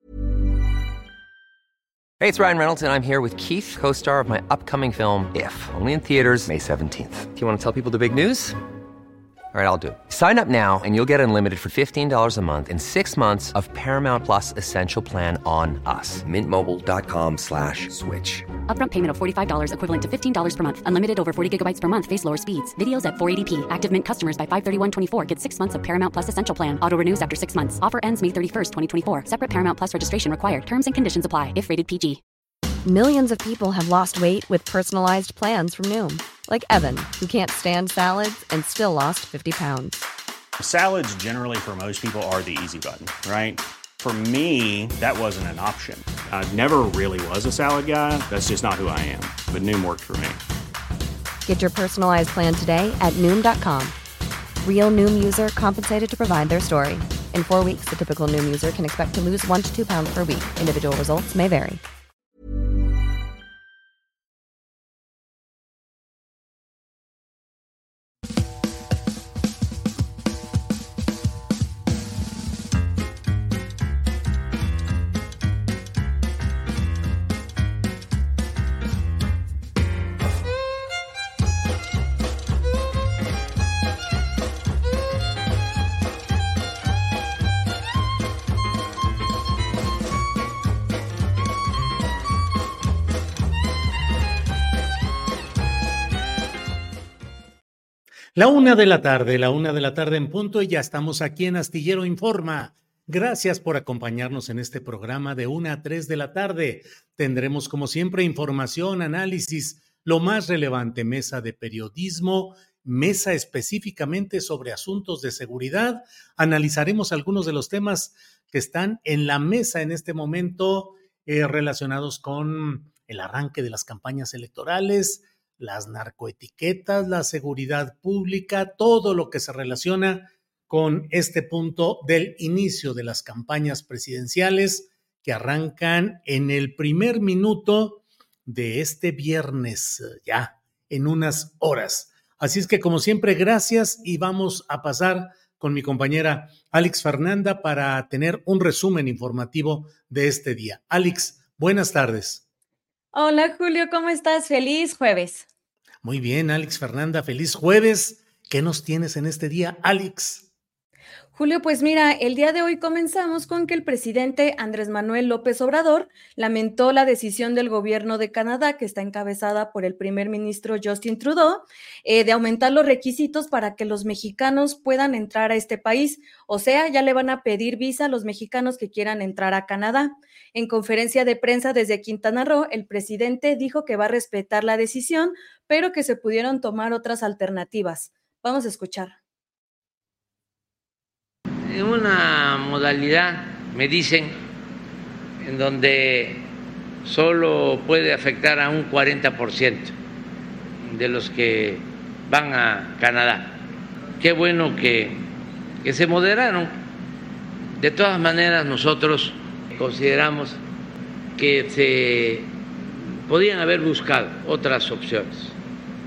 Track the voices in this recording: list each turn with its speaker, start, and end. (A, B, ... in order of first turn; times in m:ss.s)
0:02.2-0:08.6 A
0:09.5-0:18.4 A
0:18.7-0:32.2 B
0:32.8-0:40.0 C
0:40.6-0:50.4 D
0:51.4-0:54.0 C
0:54.6-1:01.8 C
1:38.4-2:32.4 E
2:33.1-2:35.5 F
2:36.0-2:40.5 E
2:41.3-3:09.2 F
3:11.6-3:14.4 G
3:15.4-3:16.5 G
3:17.0-3:19.9 G
3:20.8-3:23.6 G
3:24.2-3:25.2 G
3:25.8-3:26.8 G
3:27.8-3:30.6 G
3:31.4-3:32.5 G
3:33.1-3:35.6 G